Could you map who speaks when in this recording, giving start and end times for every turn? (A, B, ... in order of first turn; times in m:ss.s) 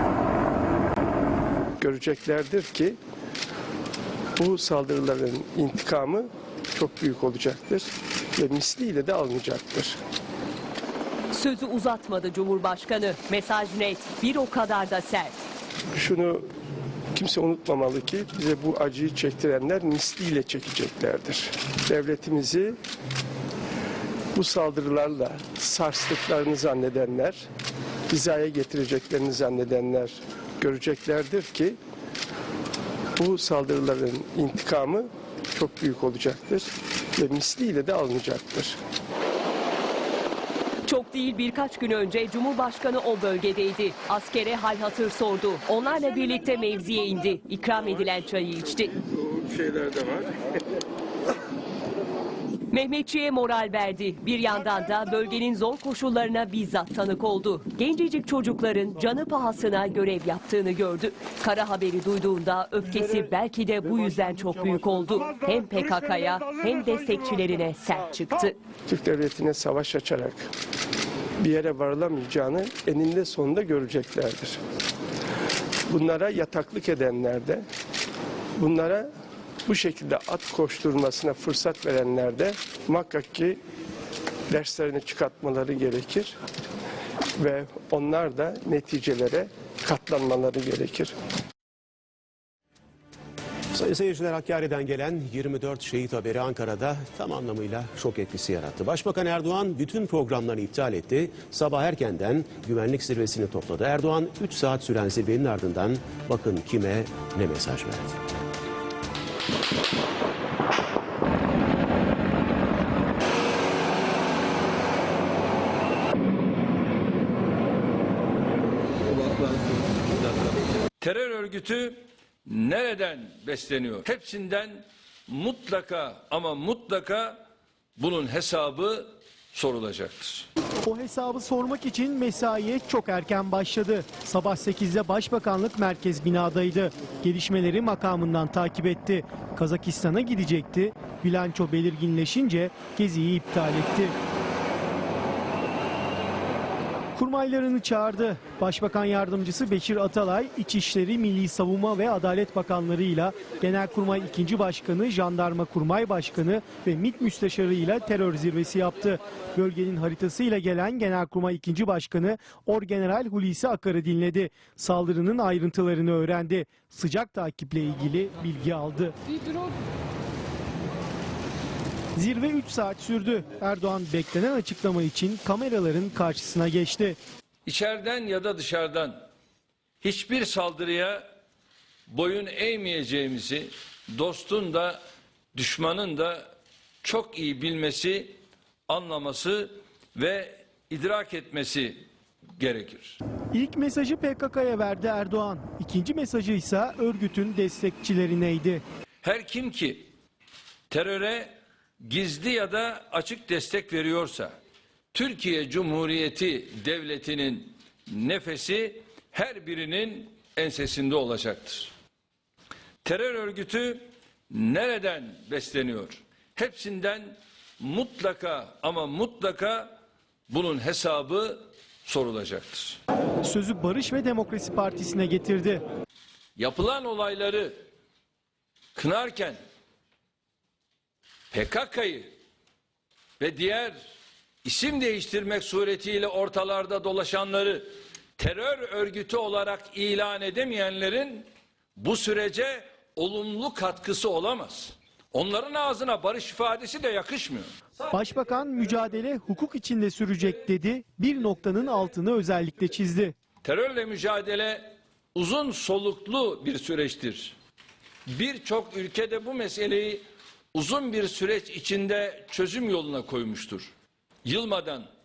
0:01.8-0:03.0 A
0:04.4-0:10.0 A
0:11.3-0:15.4 B
0:16.0-0:16.4 A
0:17.1-0:22.8 A
0:24.3-0:27.4 A
0:28.1-0:31.8 A
0:33.2-0:38.8 A
0:40.9-0:49.0 B
0:49.8-0:50.2 B
0:52.7-1:08.6 B
1:08.9-1:10.5 A
1:11.4-1:14.6 A
1:15.9-1:17.6 A
1:18.6-1:19.1 A
1:19.7-1:23.6 A
1:24.5-1:26.4 A
1:27.4-1:31.1 A
1:33.7-1:48.2 C
2:01.0-2:07.4 D
2:08.0-2:10.5 D
2:10.8-2:24.2 E
2:27.2-2:49.1 E
2:52.2-2:57.2 E
2:57.7-2:59.2 D
3:00.0-3:01.2 D
3:02.1-3:05.0 D
3:05.5-3:06.5 D
3:07.0-3:08.4 D
3:08.9-3:12.0 D
3:12.6-3:13.2 D
3:13.5-3:18.8 E
3:19.2-3:20.0 D
3:20.9-3:24.5 D
3:25.1-3:31.9 D
3:33.0-3:39.9 D
3:40.5-3:43.0 D
3:43.4-3:45.8 E
3:46.6-3:47.8 D
3:49.0-3:49.6 D
3:51.5-3:52.3 D
3:53.4-3:54.1 D
3:54.6-4:07.7 D
4:08.1-4:13.4 E
4:13.6-4:17.6 D
4:18.3-4:23.9 D
4:24.4-4:25.1 D